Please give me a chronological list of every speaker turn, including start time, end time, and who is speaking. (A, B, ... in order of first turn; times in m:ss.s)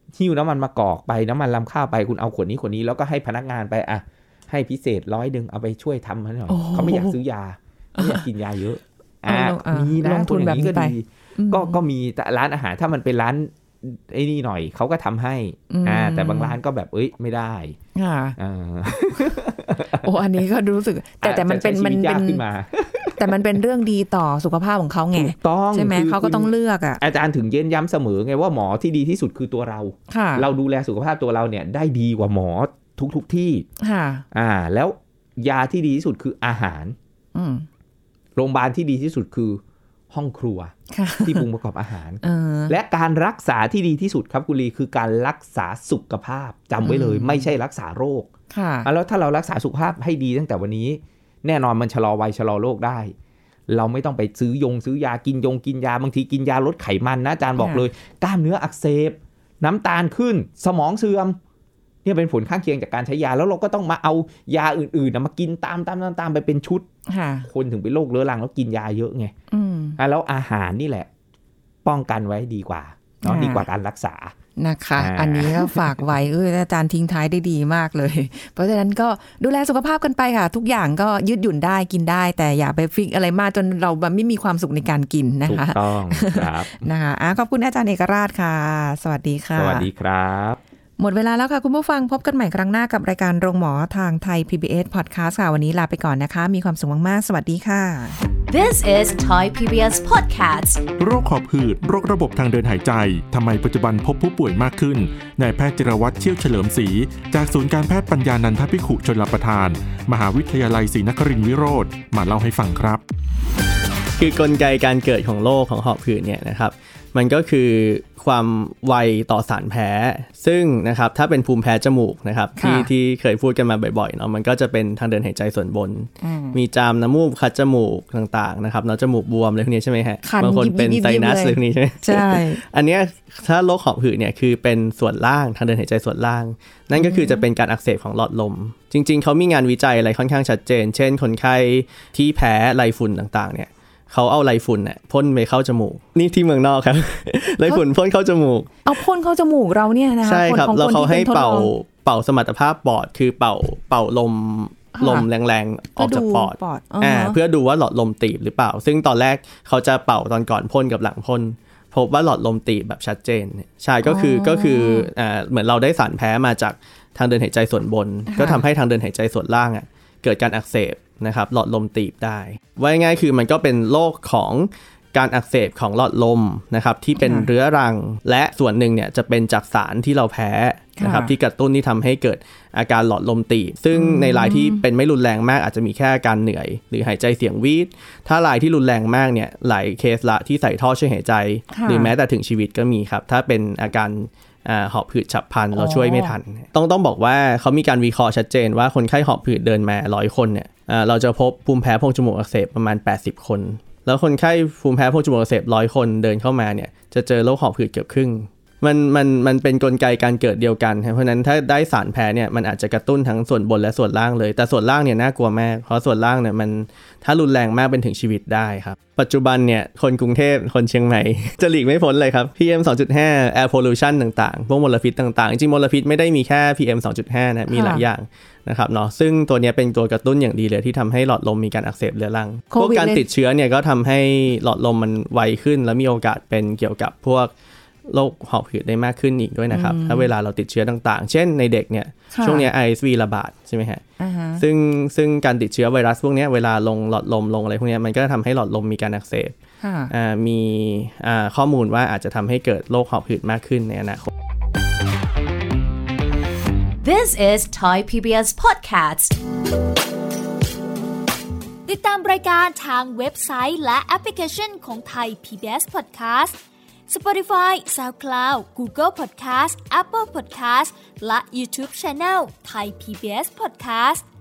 0:00.1-0:17.8 A
0:06.5-0:07.2 B
0:08.0-0:08.2 B
0:09.2-0:11.8 B
0:15.7-0:16.6 B
0:17.9-0:18.4 B
0:18.4-0:20.1 A
0:20.0-0:22.4 B
0:21.2-0:23.4 A
0:23.2-0:27.0 B
0:25.1-0:33.7 A
0:30.1-0:30.5 B
0:33.8-0:34.2 B
0:34.3-0:37.0 A
0:37.3-0:37.7 B
0:38.4-0:48.3 A
0:40.9-0:41.4 B
0:42.2-0:42.7 B
0:46.8-0:47.5 B
0:48.5-0:48.9 B
0:48.8-0:53.1 A
0:53.7-1:01.4 A
0:57.6-0:57.8 B
1:02.0-1:06.8 A
1:07.1-1:07.5 B
1:07.4-1:09.3 A
1:09.5-1:10.0 B
1:10.0-1:11.1 A
1:11.8-1:14.3 A
1:13.2-1:13.7 B
1:14.6-1:29.9 B
1:15.0-1:16.0 A
1:25.4-1:26.9 A
1:29.5-1:30.6 A
1:31.0-1:38.2 B
1:38.5-1:40.8 C
1:41.0-1:53.0 D
1:54.2-2:28.8 E
2:02.6-2:02.9 B
2:06.2-2:06.6 B
2:10.2-2:12.6 B
2:16.9-2:17.4 B
2:27.4-2:27.8 B
2:28.8-2:31.7 B
2:30.2-3:57.5 E
2:35.0-2:35.3 B
2:36.0-2:37.4 B
2:44.0-2:45.1 B
2:48.3-2:48.6 B
2:57.2-2:57.5 B
3:01.0-3:01.3 B
3:03.9-3:04.8 B
3:11.7-3:12.1 B
3:15.7-3:16.4 B
3:47.7-3:48.0 B
3:52.7-3:53.2 B
3:58.1-4:04.0 E
3:59.7-4:00.3 B
4:02.3-4:02.7 B
4:04.2-4:04.6 B
4:04.6-4:09.5 E
4:09.8-4:10.1 B
4:10.1-4:14.3 E
4:17.0-4:19.4 C
4:21.8-4:34.2 F